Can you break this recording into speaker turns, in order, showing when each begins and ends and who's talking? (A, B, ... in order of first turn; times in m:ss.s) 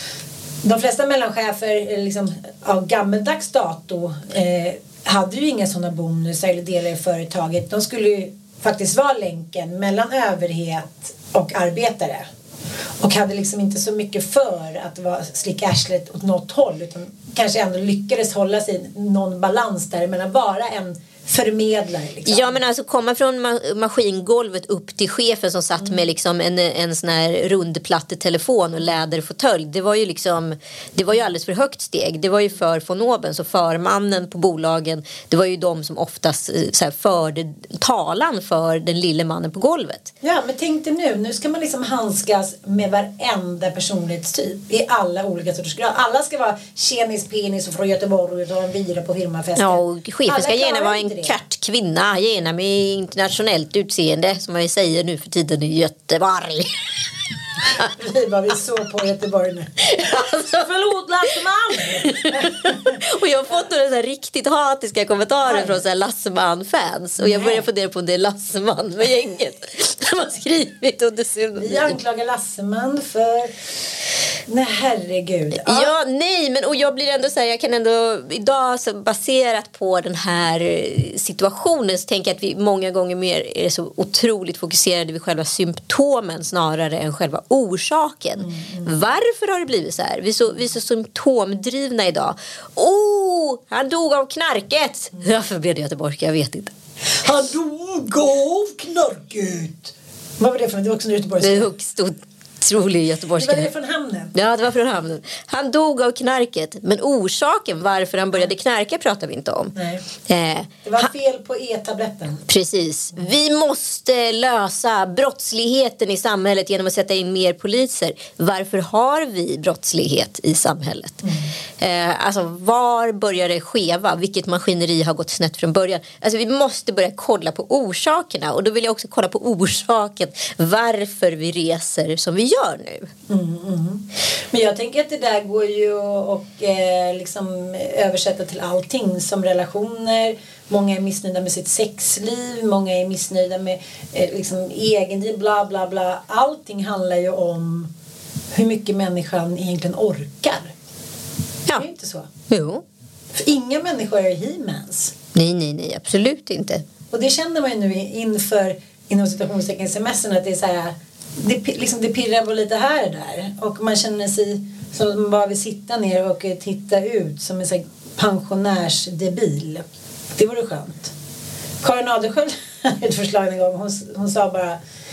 0:00.6-0:12.2 A
0:13.0-0:22.6 A
0:22.2-0:40.1 B
0:40.2-0:51.3 A
0:49.6-0:56.7 B
0:57.8-1:02.9 A
0:59.8-1:00.6 B
1:02.0-1:12.0 B
1:05.4-1:05.7 A
1:07.2-1:07.6 A
1:11.6-1:13.5 A
1:14.5-1:15.9 A
1:15.6-1:36.7 B
1:28.4-1:28.9 A
1:37.2-1:41.7 A
1:41.4-1:43.7 B
1:43.4-1:44.3 A
1:44.3-1:49.7 B
1:49.7-1:50.0 A
1:50.2-1:51.1 B
1:50.8-1:52.4 A
1:52.5-2:01.2 B
2:01.8-2:13.1 B
2:13.3-2:27.9 A
2:28.5-2:30.7 A
2:31.7-2:32.3 A
2:32.5-2:32.8 B
2:33.3-2:35.1 A
2:35.3-2:36.8 B
2:37.1-2:49.8 A
2:50.4-2:51.1 A
2:51.8-2:54.8 A